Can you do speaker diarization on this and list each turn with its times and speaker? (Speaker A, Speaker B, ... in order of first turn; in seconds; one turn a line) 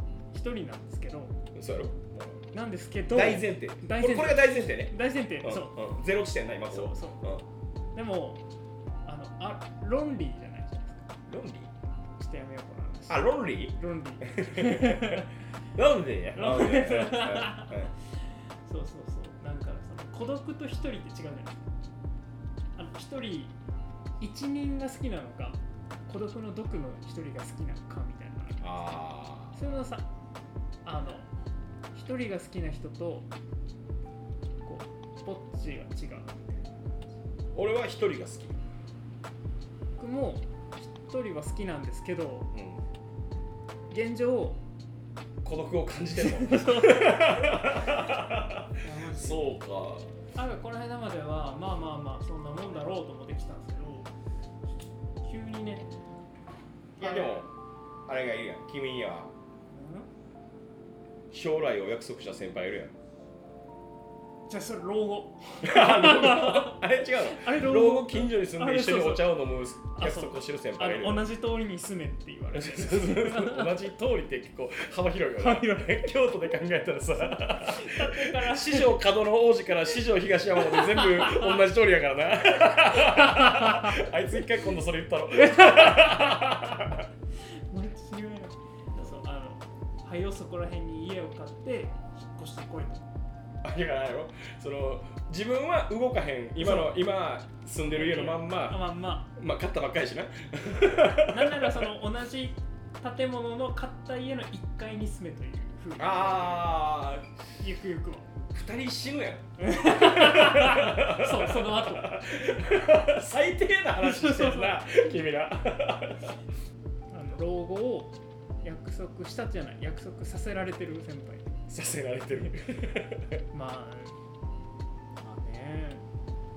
Speaker A: 0.3-1.4
Speaker B: 1.5-2.4
Speaker A: 2.5-5.9
Speaker B: 3.1-7.4
Speaker A: 6.7-7.3
Speaker A: 7.9-8.4
Speaker A: 9.0-11.2
Speaker B: 11.3-11.7
Speaker A: 12.2-15.3
Speaker B: 13.1-17.9
Speaker A: 16.3-21.7
Speaker A: 22.8-23.5
Speaker A: 24.2-30.1
Speaker B: 28.6-29.6
Speaker A: 30.8-31.3
Speaker A: 31.9-33.3
Speaker A: 34.6-37.2
Speaker B: 37.5-38.6
Speaker A: 40.0-42.5
Speaker B: 42.5-42.8
Speaker A: 43.9-44.6
Speaker B: 45.4-50.1
Speaker A: 46.2-48.2
Speaker A: 48.8-49.6
Speaker A: 50.3-54.1
Speaker A: 55.2-55.9
Speaker B: 57.0-57.5
Speaker A: 57.0-57.4
Speaker B: 58.0-59.3
Speaker A: 59.7-60.1
Speaker B: 61.3-62.9
Speaker A: 64.5-73.9
Speaker B: 65.6-71.3
Speaker B: 72.5-87.0
Speaker A: 75.4-76.1
Speaker A: 77.3-79.0
Speaker A: 80.6-81.6
Speaker A: 83.0-84.0
Speaker A: 85.4-86.9
Speaker A: 87.4-93.0
Speaker B: 93.6-101.9
Speaker A: 96.6-97.0
Speaker A: 97.9-99.3
Speaker A: 101.1-106.7
Speaker B: 106.0-107.3
Speaker A: 107.6-108.4
Speaker B: 108.5-116.4
Speaker A: 109.6-112.2
Speaker A: 114.0-114.8
Speaker A: 117.1-121.6
Speaker B: 121.7-123.4
Speaker A: 123.5-124.2
Speaker A: 125.2-126.0